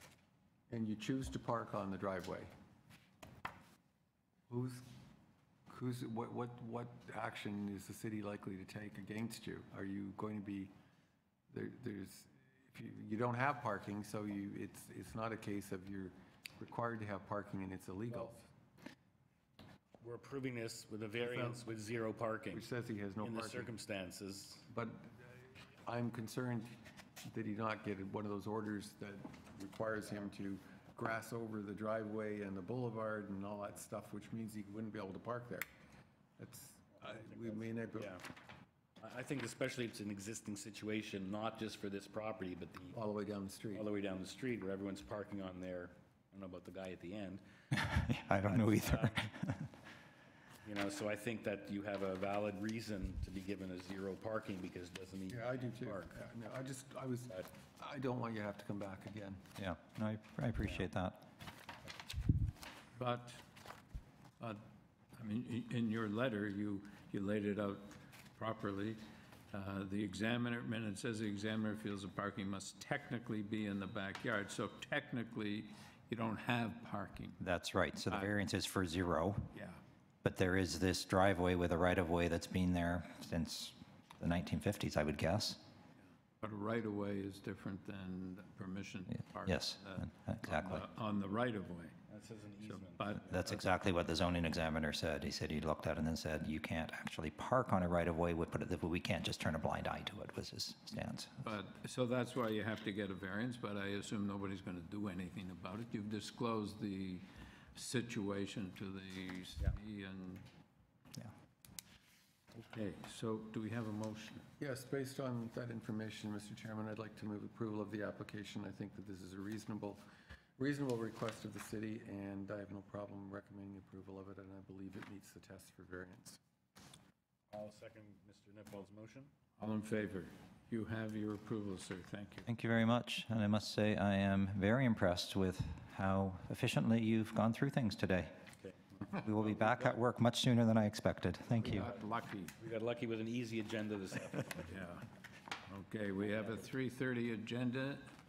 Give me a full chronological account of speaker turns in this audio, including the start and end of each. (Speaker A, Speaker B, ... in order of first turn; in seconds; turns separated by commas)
Speaker A: 0.7-2.5, Speaker A: 4.5-4.8, Speaker A: 5.7-10.7, Speaker A: 11.5-18.5, Speaker B: 20.0-22.6, Speaker A: 21.3-21.6, Speaker A: 22.5-23.7, Speaker B: 23.2-24.7, Speaker A: 24.7-26.7, Speaker A: 27.2-35.6, Speaker A: 36.4-38.2, Speaker B: 37.1-38.2, Speaker B: 39.0-43.0, Speaker A: 42.9-43.8, Speaker B: 43.7-47.4, Speaker C: 47.7-49.7, Speaker B: 48.5-49.3, Speaker B: 50.6-56.2, Speaker A: 55.3-59.4, Speaker C: 59.6-61.2, Speaker D: 62.9-63.4, Speaker D: 65.1-77.4, Speaker C: 77.4-79.5, Speaker D: 79.5-79.8, Speaker C: 80.2-85.6, Speaker D: 86.4-92.0, Speaker C: 89.4-90.8, Speaker B: 92.1-93.2, Speaker D: 92.6-93.7, Speaker C: 93.3-101.4, Speaker D: 101.4-110.5, Speaker D: 112.5-114.4, Speaker A: 114.6-120.0, Speaker A: 120.6-126.4, Speaker B: 127.5-129.3, Speaker D: 129.6-132.5, Speaker C: 132.4-138.3, Speaker B: 138.6-138.9, Speaker C: 139.2-141.9, Speaker D: 141.6-142.6, Speaker B: 142.6-144.7, Speaker D: 144.7-145.0, Speaker D: 145.7-148.1